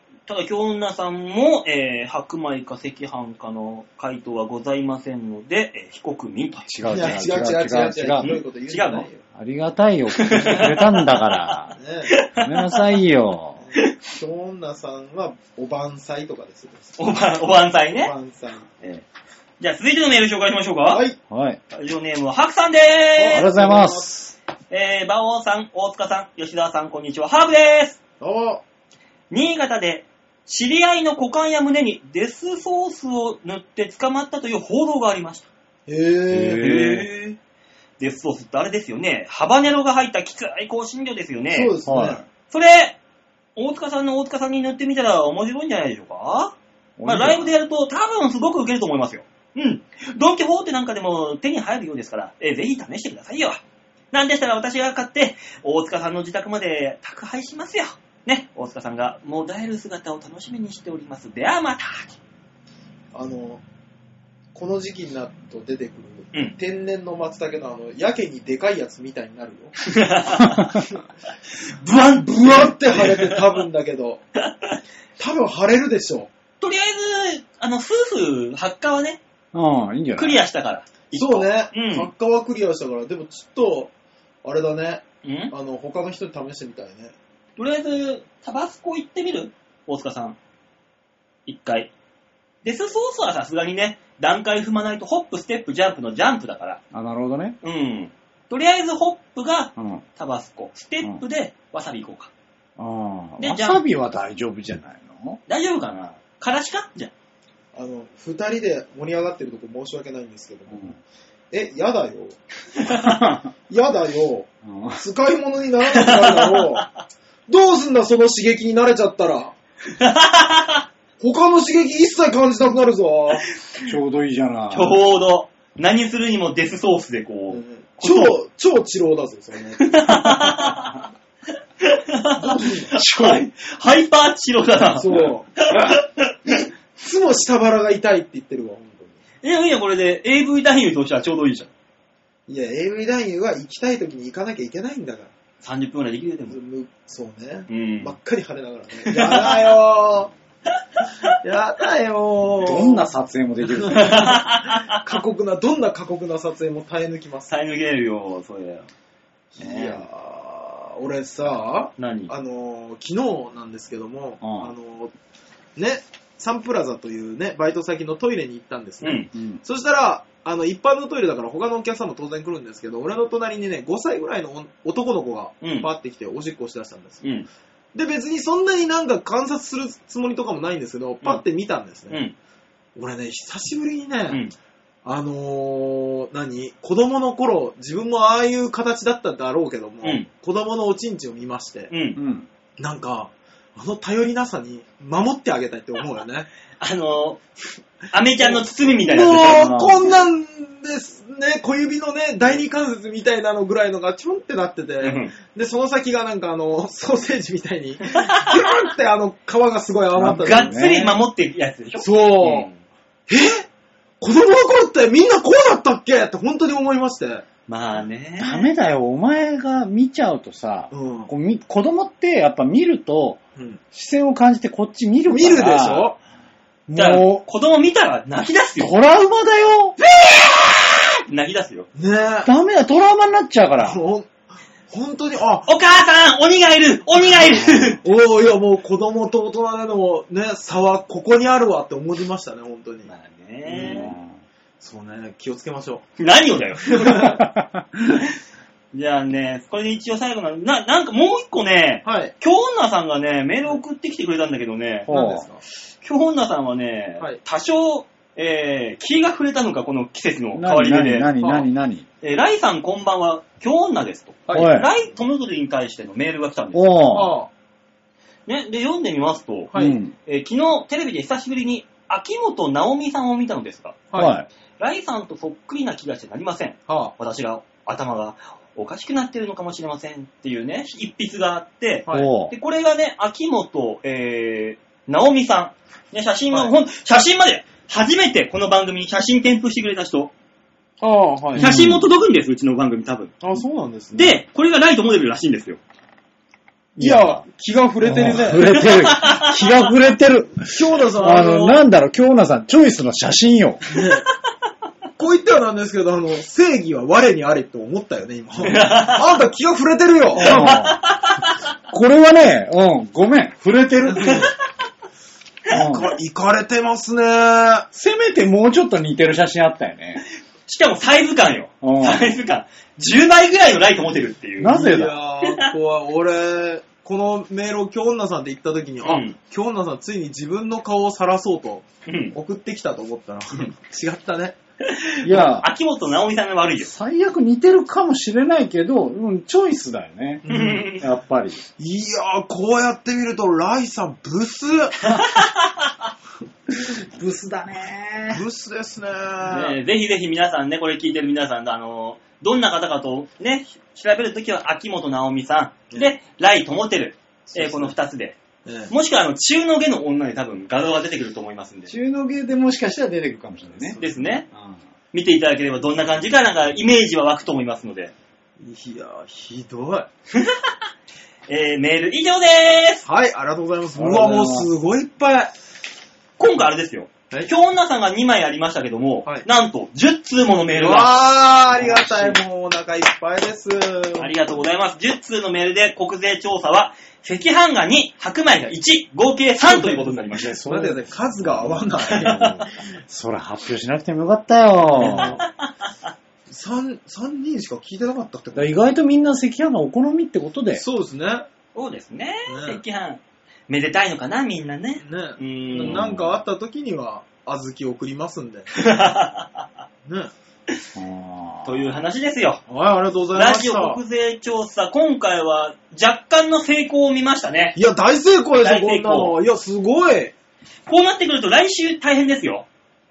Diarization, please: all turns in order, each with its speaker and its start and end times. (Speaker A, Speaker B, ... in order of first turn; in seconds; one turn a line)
Speaker A: 0.3-6.7
Speaker B: 6.7-8.3
Speaker C: 6.9-9.2
Speaker A: 8.2-9.1
Speaker B: 9.3-11.8
Speaker A: 10.2-11.4
Speaker C: 11.7-12.1
Speaker A: 12.1-12.8
Speaker B: 12.4-13.6
Speaker C: 13.6-16.9
Speaker A: 17.0-18.1
Speaker C: 17.9-18.7
Speaker A: 19.6-21.0
Speaker C: 20.9-21.2
Speaker B: 21.3-21.6
Speaker A: 21.7-23.5
Speaker C: 23.2-24.1
Speaker B: 23.3-24.4
Speaker A: 24.7-28.0
Speaker C: 28.2-28.6
Speaker A: 29.3-35.5
Speaker C: 35.9-37.2
Speaker B: 36.3-37.0
Speaker A: 36.6-37.3
Speaker A: 38.0-41.7
Speaker C: 41.5-42.2
Speaker B: 41.9-42.2
Speaker A: 42.5-43.0
Speaker A: 43.5-53.6
Speaker B: 47.0-47.5
Speaker A: 54.1-62.2
Speaker C: 63.1-63.6
Speaker C: 64.5-69.8
Speaker A: 69.8-70.8
Speaker A: 71.7-73.5
Speaker C: 72.0-74.2
Speaker A: 74.4-74.8
Speaker C: 75.2-76.3
Speaker A: 76.6-79.2
Speaker B: 79.5-80.4
Speaker A: 80.2-82.1
Speaker C: 81.1-83.9
Speaker C: 84.4-87.1
Speaker A: 85.2-85.5
Speaker A: 87.6-90.4
Speaker A: 91.5-91.9
Speaker A: 92.6-96.8
Speaker B: 96.9-97.6
Speaker A: 97.6-102.3
Speaker B: 99.8-100.0
Speaker B: 102.8-105.4
Speaker A: 103.4-103.8
Speaker A: 105.5-107.1
Speaker C: 107.7-110.9
Speaker C: 111.5-112.3
Speaker A: 112.8-113.1
Speaker B: 112.9-113.5
Speaker C: 113.7-116.9
Speaker B: 114.6-115.0
Speaker A: 115.9-116.8
Speaker C: 117.5-119.5
Speaker A: 119.9-120.8
Speaker C: 121.2-123.5
Speaker B: 123.8-125.0
Speaker A: 124.7-128.3
Speaker C: 127.5-130.1
Speaker A: 129.8-131.0
Speaker A: 131.8-136.3
Speaker C: 132.4-133.1
Speaker B: 133.1-133.4
Speaker C: 134.9-135.5
Speaker C: 136.4-139.2
Speaker A: 139.4-141.7
Speaker C: 142.5-145.3
Speaker A: 145.6-146.6
Speaker C: 146.5-150.3
Speaker A: 147.7-148.1
Speaker A: 149.0-149.7
Speaker A: 151.0-151.3
Speaker C: 151.3-153.1
Speaker B: 152.6-154.4
Speaker C: 153.7-157.5
Speaker A: 153.9-155.0
Speaker A: 157.5-158.9
Speaker A: 159.6-160.0
Speaker C: 159.6-165.1
Speaker A: 162.0-162.3
Speaker B: 164.4-164.7
Speaker C: 165.8-177.2
Speaker A: 169.0-169.3
Speaker B: 169.3-169.6
Speaker A: 175.6-175.9
Speaker A: 177.2-177.5
Speaker C: 177.9-182.2
Speaker A: 182.1-182.3
Speaker C: 182.9-184.4
Speaker C: 185.0-191.9
Speaker A: 191.9-192.2
Speaker B: 192.2-192.5
Speaker C: 192.8-196.5
Speaker A: 196.8-199.7
Speaker C: 198.4-210.7
Speaker B: 199.5-200.1
Speaker A: 205.0-205.3
Speaker A: 208.1-208.7
Speaker B: 210.1-211.2
Speaker A: 210.3-212.8
Speaker C: 212.0-212.7
Speaker C: 213.3-213.7
Speaker C: 214.2-217.4
Speaker A: 217.7-218.7
Speaker B: 218.4-223.4
Speaker C: 220.9-221.3
Speaker B: 223.9-226.1
Speaker C: 225.3-226.2
Speaker B: 226.9-227.4
Speaker A: 226.9-228.9
Speaker B: 228.8-230.0
Speaker A: 231.3-231.9
Speaker C: 231.9-232.5
Speaker B: 232.4-234.0
Speaker C: 233.8-234.3
Speaker C: 234.9-235.7
Speaker A: 235.7-238.0
Speaker B: 237.4-238.0
Speaker C: 238.0-243.1
Speaker A: 243.1-244.1
Speaker C: 243.7-244.1
Speaker B: 243.8-244.3
Speaker C: 244.8-246.0
Speaker A: 246.2-247.3
Speaker C: 246.8-247.4
Speaker B: 247.3-247.8
Speaker A: 248.9-255.1
Speaker C: 252.0-252.3
Speaker B: 255.1-255.4
Speaker C: 255.1-255.6
Speaker A: 256.0-261.3
Speaker B: 260.5-262.1
Speaker C: 261.4-261.7
Speaker A: 262.2-267.0
Speaker C: 264.4-264.8
Speaker B: 264.5-264.9
Speaker B: 266.7-267.3
Speaker C: 267.1-267.5
Speaker A: 268.5-269.7
Speaker C: 269.7-270.0
Speaker B: 269.7-270.1
Speaker A: 270.2-274.0
Speaker C: 274.1-274.4
Speaker B: 274.1-274.5
Speaker A: 274.8-290.3
Speaker C: 276.9-277.1
Speaker B: 282.1-282.5
Speaker C: 291.0-291.7
Speaker B: 291.6-292.0
Speaker A: 291.6-293.3
Speaker C: 293.4-294.4
Speaker A: 294.1-295.8
Speaker B: 297.0-297.4
Speaker C: 297.0-298.9
Speaker B: 298.0-303.8
Speaker A: 298.9-299.6
Speaker C: 300.7-301.8
Speaker C: 303.9-304.2
Speaker C: 305.2-310.8
Speaker A: 308.7-309.2
Speaker B: 310.3-311.0
Speaker A: 310.4-311.5
Speaker B: 311.9-314.5
Speaker C: 314.1-314.5
Speaker B: 315.7-316.1
Speaker C: 315.7-317.9
Speaker B: 317.9-320.2
Speaker A: 320.7-324.8
Speaker B: 321.8-322.4
Speaker B: 324.6-325.2
Speaker C: 324.6-334.6
Speaker A: 329.0-329.3
Speaker A: 332.1-332.4
Speaker A: 334.8-336.9
Speaker B: 335.2-335.7
Speaker B: 336.8-341.6
Speaker C: 340.4-340.9
Speaker A: 340.5-341.0
Speaker C: 341.8-345.2
Speaker A: 345.1-345.7
Speaker B: 346.8-348.4
Speaker C: 348.3-349.8
Speaker A: 349.5-358.4
Speaker C: 357.5-357.9
Speaker C: 358.6-358.9
Speaker A: 358.9-361.9
Speaker B: 361.9-364.0
Speaker C: 363.7-364.4
Speaker A: 364.0-364.4
Speaker B: 364.5-364.8
Speaker A: 365.1-368.1
Speaker C: 368.6-370.1
Speaker A: 370.3-370.7
Speaker A: 371.5-373.1
Speaker C: 373.1-375.5
Speaker B: 373.9-374.7
Speaker A: 376.4-381.2
Speaker C: 380.7-384.3
Speaker B: 381.7-382.4
Speaker A: 384.2-390.5
Speaker C: 389.6-392.4
Speaker B: 390.3-395.4
Speaker A: 392.1-392.6
Speaker C: 394.9-395.4
Speaker C: 396.5-398.8
Speaker B: 398.5-400.8
Speaker C: 400.8-401.5
Speaker A: 401.7-406.0
Speaker C: 402.5-402.8
Speaker C: 405.0-408.7
Speaker B: 405.8-406.4
Speaker A: 408.7-409.7
Speaker B: 410.9-412.0
Speaker A: 411.6-412.6
Speaker C: 412.7-414.0
Speaker A: 413.3-417.8
Speaker C: 417.7-420.3
Speaker A: 418.6-419.4
Speaker A: 420.9-422.7